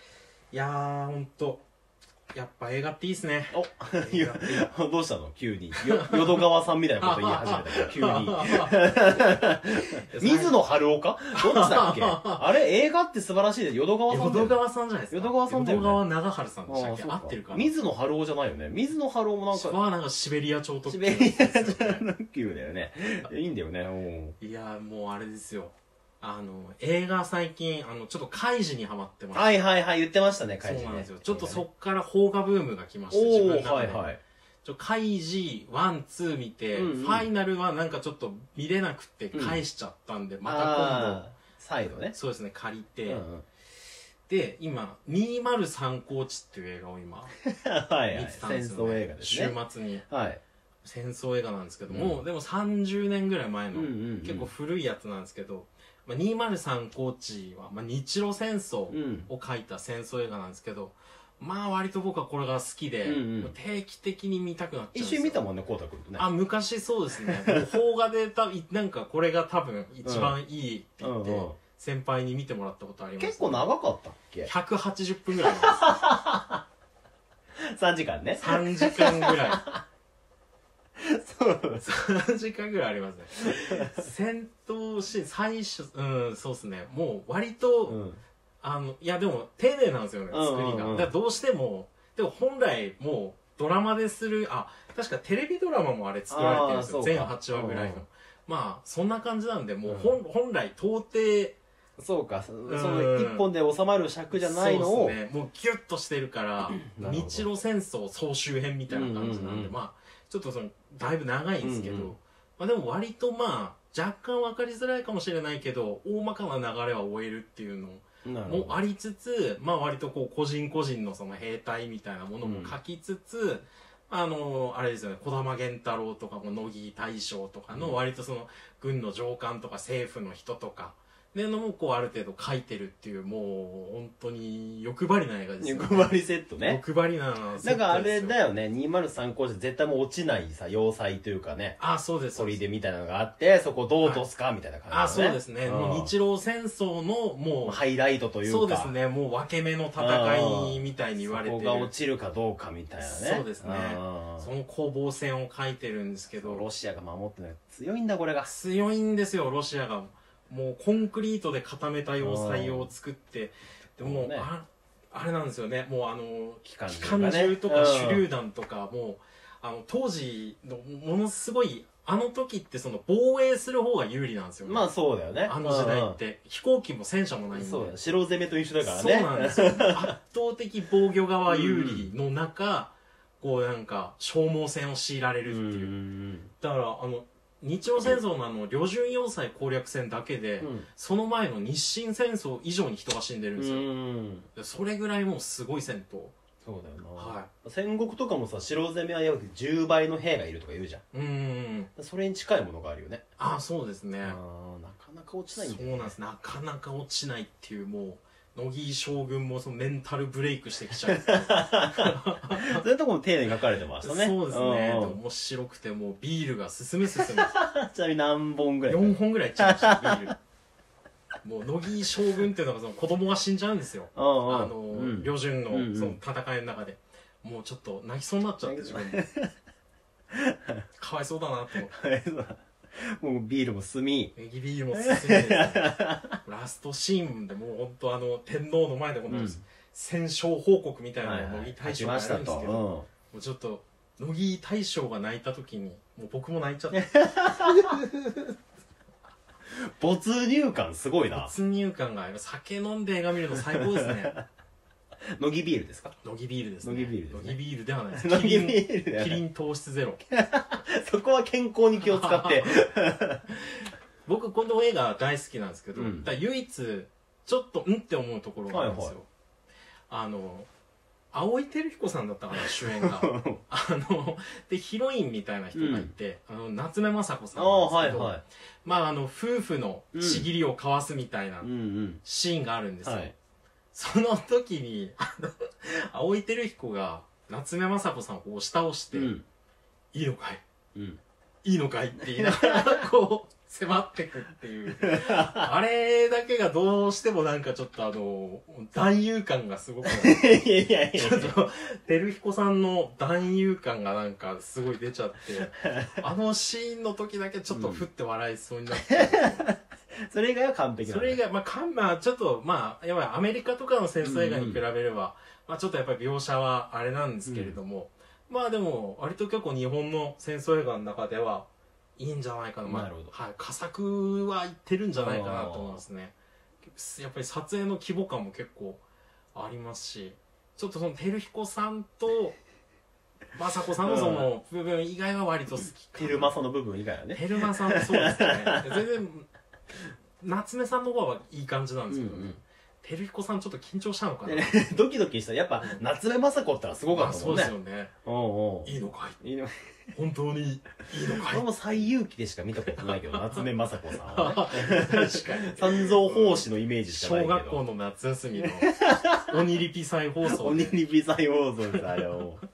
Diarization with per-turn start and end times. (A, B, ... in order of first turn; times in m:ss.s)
0:00.5-0:01.6 A
0:02.3-0:04.7 A
0:03.5-0:16.0 B
0:05.8-0:06.4 A
0:07.0-0:08.8 A
0:10.1-0:10.6 A
0:11.3-0:12.5 A
0:14.1-0:17.7 A
0:16.7-0:19.8 B
0:19.5-0:22.1 A
0:20.8-0:24.3 B
0:24.4-0:29.5 A
0:29.3-0:31.6 B
0:30.6-0:34.1 A
0:33.1-0:34.2 B
0:34.6-0:41.3 A
0:36.7-0:37.3 B
0:39.3-0:39.6 B
0:40.4-0:42.2 B
0:42.0-0:43.2 A
0:43.1-0:43.4 B
0:44.3-0:47.3 A
0:47.4-0:49.6 B
0:48.1-0:50.0 A
0:50.1-0:50.4 B
0:50.8-1:05.4 A
0:51.9-0:52.2 B
0:53.7-0:54.5 B
0:58.9-0:59.3 B
1:03.0-1:03.5 B
1:04.9-1:06.3 B
1:06.2-1:13.7 A
1:07.2-1:07.6 B
1:10.0-1:10.4 B
1:11.0-1:11.6 B
1:13.2-1:14.5 B
1:14.4-1:15.9 A
1:15.4-1:16.6 B
1:17.6-1:19.8 B
1:18.4-1:19.6 A
1:21.0-1:21.8 B
1:21.8-1:28.0 A
1:27.8-1:28.2 B
1:28.6-1:41.6 A
1:30.3-1:31.1 B
1:36.3-1:38.0 B
1:39.8-1:40.2 B
1:42.0-1:45.2 B
1:42.6-1:43.5 A
1:44.3-2:18.4 A
1:46.8-1:47.5 B
1:48.9-1:49.7 B
1:51.6-1:52.1 B
1:58.2-1:58.8 B
2:02.4-2:02.8 B
2:07.7-2:08.0 B
2:15.6-2:16.8 B
2:17.6-2:21.8 B
2:21.8-2:22.6 A
2:22.3-2:26.1 B
2:24.9-2:27.8 A
2:27.6-2:28.9 B
2:28.4-2:31.9 A
2:30.0-2:34.5 B
2:33.0-2:36.6 A
2:36.3-2:38.5 B
2:38.4-2:54.9 A
2:42.2-2:42.9 B
2:44.0-2:44.5 B
2:46.6-2:48.3 B
2:54.6-2:56.2 B
2:55.4-2:58.0 A
2:57.5-3:00.1 B
2:58.8-3:05.9 A
3:01.5-3:02.1 B
3:05.4-3:06.5 B
3:06.6-3:13.9 A
3:10.6-3:10.9 B
3:13.6-3:14.5 B
3:14.6-3:16.4 A
3:16.6-3:21.0 B
3:17.2-3:17.5 A
3:21.1-3:21.9 A
3:22.0-3:23.2 B
3:23.4-3:24.4 A
3:24.2-3:26.2 B
3:25.5-3:32.9 A
3:31.1-3:35.2 B
3:34.0-3:37.5 A
3:37.1-3:40.3 B
3:38.8-3:40.4 A
3:41.4-3:49.3 A
3:44.1-3:46.2 B
3:48.6-3:49.5 B
3:50.3-3:50.8 B
3:51.0-3:51.9 A
3:51.9-3:54.3 B
3:54.4-4:07.1 A
3:54.9-3:56.4 B
3:59.3-3:59.6 B
4:01.2-4:03.1 B
4:06.9-4:08.4 B
4:09.7-4:11.6 B
4:11.3-4:14.4 A
4:13.6-4:14.4 B
4:15.4-4:16.1 B
4:16.2-4:20.2 A
4:16.8-4:17.6 B
4:18.1-4:19.4 B
4:20.3-4:23.4 B
4:22.0-4:22.8 A
4:23.6-4:29.2 A
4:25.9-4:26.3 B
4:28.7-4:29.2 B
4:30.1-4:30.7 A
4:31.3-4:41.7 A
4:32.6-4:33.6 B
4:35.7-4:36.1 B
4:37.5-4:38.4 B
4:40.1-4:40.5 B
4:41.6-4:42.2 B
4:42.2-4:43.3 A
4:43.0-4:43.3 B
4:43.9-4:49.4 A
4:49.1-4:49.4 B
4:50.1-4:50.6 A
4:50.9-4:51.2 B
4:51.6-5:09.7 A
4:52.4-4:53.0 B
4:55.0-4:55.7 B
5:00.0-5:01.6 B
5:05.8-5:06.2 B
5:07.7-5:08.1 B
5:09.0-5:11.4 B
5:11.1-5:29.0 A
5:14.2-5:14.8 B
5:17.4-5:17.8 B
5:22.8-5:23.3 B
5:25.2-5:26.0 B
5:29.5-5:32.5 A
5:33.5-5:36.6 A
5:34.0-5:34.5 B
5:36.1-5:39.0 B
5:37.3-5:39.5 A
5:40.4-5:44.8 A
5:42.1-5:42.6 B
5:44.4-5:47.7 B
5:47.1-5:48.1 A
5:48.2-5:50.1 B
5:48.8-5:49.4 A
5:50.2-5:51.6 A
5:51.4-5:57.8 B
5:52.9-5:53.7 A
5:54.2-6:01.0 A
5:58.6-5:59.5 B
6:00.4-6:02.6 B
6:01.9-6:02.4 A